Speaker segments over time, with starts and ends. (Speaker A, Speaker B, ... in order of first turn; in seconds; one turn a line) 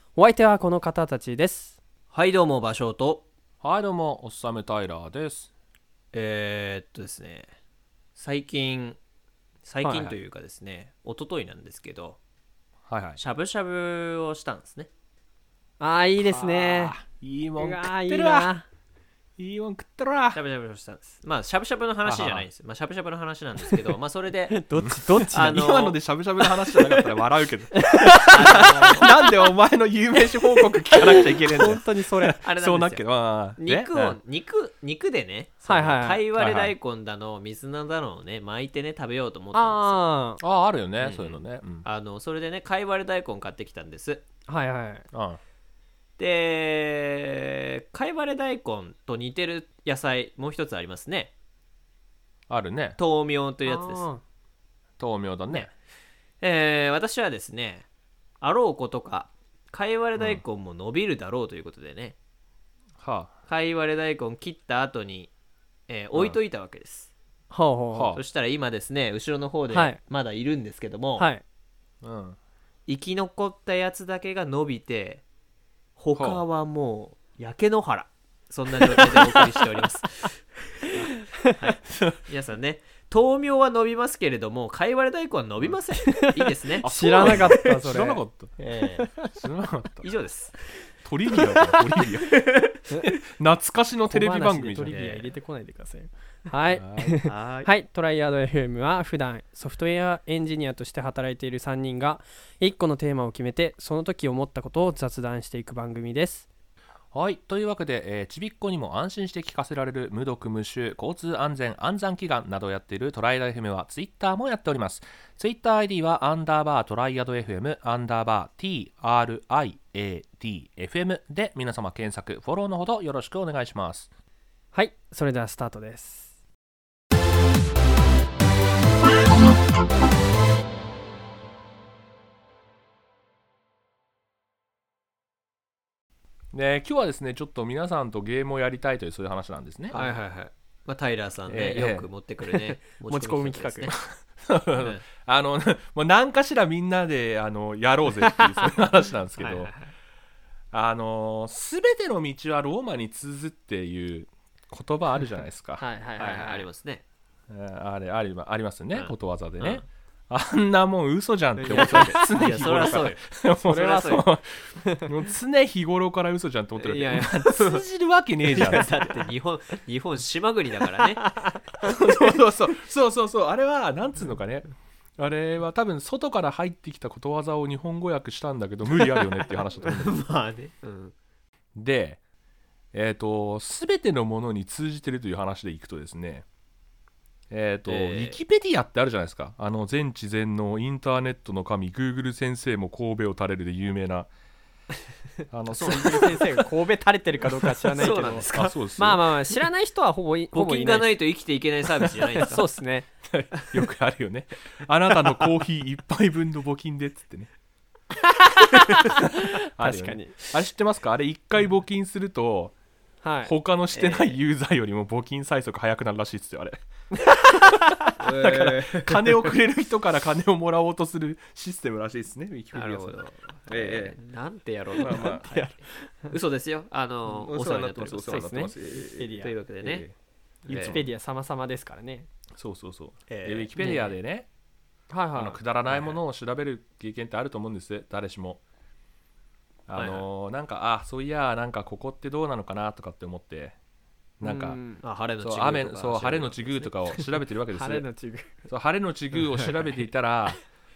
Speaker A: 0.2-1.8
Speaker B: 2.1-3.3
Speaker C: 3.6-5.5
Speaker B: 6.1-7.5
Speaker B: 8.2-9.0
Speaker B: 9.6-12.2
Speaker A: 9.8-10.2
Speaker C: 12.9-13.2
Speaker B: 13.2-14.9
Speaker A: 15.8-16.9
Speaker C: 16.2-18.5
Speaker B: 16.7-16.9
Speaker A: 17.6-18.7
Speaker C: 19.4-20.4
Speaker B: 20.3-24.6
Speaker C: 22.1-22.5
Speaker A: 24.5-25.6
Speaker C: 24.8-34.2
Speaker B: 25.3-26.0
Speaker A: 26.6-27.1
Speaker A: 27.7-29.1
Speaker B: 28.3-29.1
Speaker A: 30.5-32.4
Speaker B: 32.4-40.0
Speaker A: 35.7-36.2
Speaker C: 36.4-36.7
Speaker A: 39.5-40.4
Speaker C: 40.4-41.9
Speaker B: 41.0-44.2
Speaker A: 44.5-45.1
Speaker C: 45.1-45.4
Speaker B: 46.2-51.3
Speaker C: 52.5-53.0
Speaker B: 53.0-54.0
Speaker A: 53.7-54.2
Speaker C: 55.0-55.7
Speaker B: 56.4-57.9
Speaker B: 58.4-62.2
Speaker C: 60.2-60.4
Speaker C: 63.0-63.4
Speaker B: 63.5-65.3
Speaker B: 65.9-67.1
Speaker A: 67.5-68.2
Speaker C: 67.9-68.2
Speaker B: 68.1-71.3
Speaker A: 69.7-70.0
Speaker A: 71.2-71.4
Speaker C: 72.0-72.4
Speaker B: 72.9-75.2
Speaker B: 76.0-87.6
Speaker C: 76.2-76.4
Speaker A: 78.8-79.6
Speaker A: 81.3-81.6
Speaker A: 85.9-88.2
Speaker C: 86.8-88.5
Speaker B: 88.6-89.1
Speaker A: 89.0-89.3
Speaker C: 89.3-90.1
Speaker B: 90.0-90.6
Speaker C: 91.0-92.4
Speaker B: 92.0-92.8
Speaker C: 93.0-95.0
Speaker A: 94.1-106.5
Speaker B: 94.9-95.3
Speaker C: 96.7-97.2
Speaker B: 97.2-97.7
Speaker C: 107.1-124.1
Speaker A: 124.7-126.4
Speaker C: 136.5-140.0
Speaker A: 139.9-140.2
Speaker B: 139.9-144.0
Speaker C: 141.5-142.1
Speaker A: 143.1-143.9
Speaker C: 143.9-149.7
Speaker B: 144.8-145.0
Speaker A: 148.2-148.6
Speaker B: 149.4-149.9
Speaker C: 150.7-155.8
Speaker A: 155.8-156.7
Speaker B: 156.2-157.0
Speaker C: 157.5-169.1
Speaker B: 158.9-159.8
Speaker B: 161.6-164.3
Speaker A: 161.7-162.2
Speaker B: 166.8-167.9
Speaker B: 168.4-171.3
Speaker A: 171.2-171.9
Speaker C: 171.8-180.2
Speaker B: 179.0-181.1
Speaker C: 181.8-182.2
Speaker C: 182.9-186.5
Speaker C: 187.5-194.3
Speaker B: 187.9-188.4
Speaker C: 195.5-196.6
Speaker A: 195.7-201.2
Speaker B: 195.7-196.4
Speaker B: 197.9-198.8
Speaker C: 198.0-199.2
Speaker B: 200.5-202.7
Speaker A: 202.2-203.7
Speaker C: 203.3-207.5
Speaker A: 208.2-210.4
Speaker C: 209.1-212.7
Speaker A: 213.2-213.5
Speaker C: 213.4-216.8
Speaker B: 213.9-214.4
Speaker A: 217.1-218.2
Speaker C: 217.4-224.2
Speaker B: 218.2-219.5
Speaker B: 222.7-228.5
Speaker C: 224.9-225.5
Speaker A: 225.1-226.3
Speaker C: 227.3-230.1
Speaker A: 228.3-229.5
Speaker B: 229.2-230.1
Speaker B: 230.7-231.0
Speaker C: 230.7-231.0
Speaker A: 230.7-232.3
Speaker C: 232.6-234.5
Speaker B: 233.3-234.1
Speaker A: 235.1-235.6
Speaker C: 235.4-238.6
Speaker B: 235.8-236.2
Speaker C: 239.9-243.8
Speaker B: 239.9-240.2
Speaker C: 244.4-244.8
Speaker A: 244.4-245.0
Speaker B: 245.0-247.3
Speaker C: 245.4-248.1
Speaker A: 247.7-248.6
Speaker C: 248.7-250.6